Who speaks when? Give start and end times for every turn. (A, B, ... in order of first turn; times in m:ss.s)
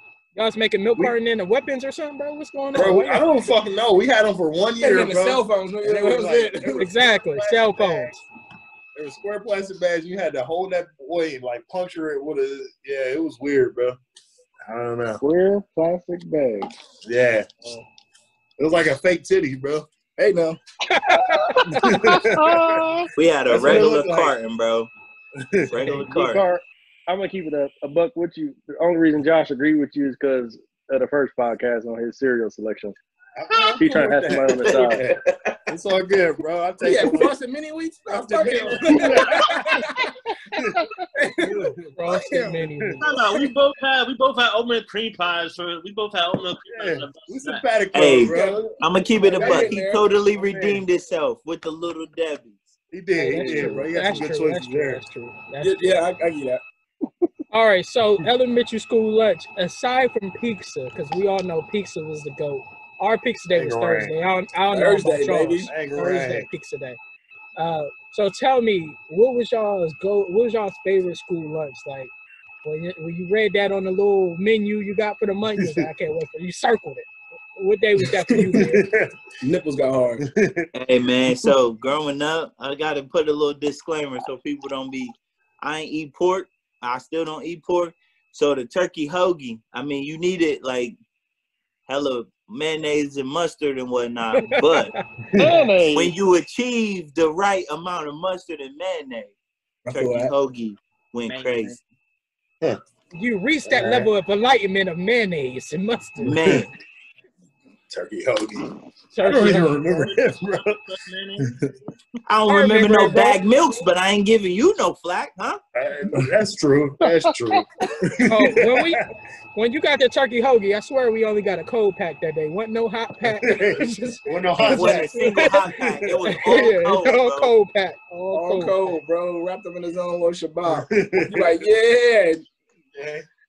0:00.4-0:03.3 A
0:02.7-0:08.2 B
0:04.8-0:06.9 C
0:06.8-0:08.2 A
0:09.0-0:14.0 B
0:14.7-0:15.2 B
0:15.2-0:16.7 D
0:17.0-0:17.5 B
0:18.6-0:19.9 B
0:20.2-0:20.6 C
0:20.9-0:22.2 A
0:21.7-0:22.9 B
0:21.7-0:23.1 D
0:23.2-0:24.9 E
0:23.5-0:24.4 B
0:25.4-0:26.1 B
0:25.7-0:26.4 E
0:25.9-0:33.0 D
0:33.4-0:37.4 B
0:33.8-0:35.0 D
0:34.7-0:35.6 E
0:36.8-0:40.1 C
0:38.1-0:39.9 B
0:39.0-0:39.4 F
0:40.6-0:40.8 B
0:41.2-0:42.7 C
0:41.4-0:42.0 B
0:42.0-0:43.1 A
0:43.0-0:47.7 F
0:46.7-0:50.8 B
0:47.9-0:52.8 E
0:48.1-0:50.0 C
0:52.9-0:55.0 B
0:53.2-0:56.0 A
0:55.6-0:56.6 C
0:57.5-1:07.0 A
1:03.5-1:04.2 B
1:04.7-1:05.7 C
1:05.7-1:06.5 B
1:07.6-1:12.1 A
1:12.6-1:18.9 A
1:15.6-1:15.9 B
1:18.3-1:19.2 B
1:19.4-1:20.2 C
1:20.2-1:20.7 B
1:20.7-1:31.0 E
1:31.9-1:34.9 E
1:34.4-1:35.0 A
1:35.4-1:35.7 B
1:35.4-1:36.2 D
1:35.9-1:39.3 E
1:39.9-1:40.3 C
1:39.9-1:41.8 E
1:41.3-1:41.8 F
1:43.1-1:46.6 A
1:43.6-1:44.1 B
1:46.2-1:46.7 E
1:46.4-1:46.7 B
1:47.9-1:50.8 B
1:49.1-1:50.0 A
1:49.3-1:51.5 F
1:51.4-1:51.7 B
1:52.3-1:55.6 E
1:52.5-1:53.4 A
1:55.8-1:59.0 B
1:57.0-1:57.4 D
1:58.3-1:59.0 A
1:59.6-2:05.6 A
2:03.3-2:06.3 B
2:04.7-2:07.5 E
2:06.2-2:08.9 A
2:08.3-2:12.5 C
2:10.7-2:11.6 B
2:13.0-2:13.2 B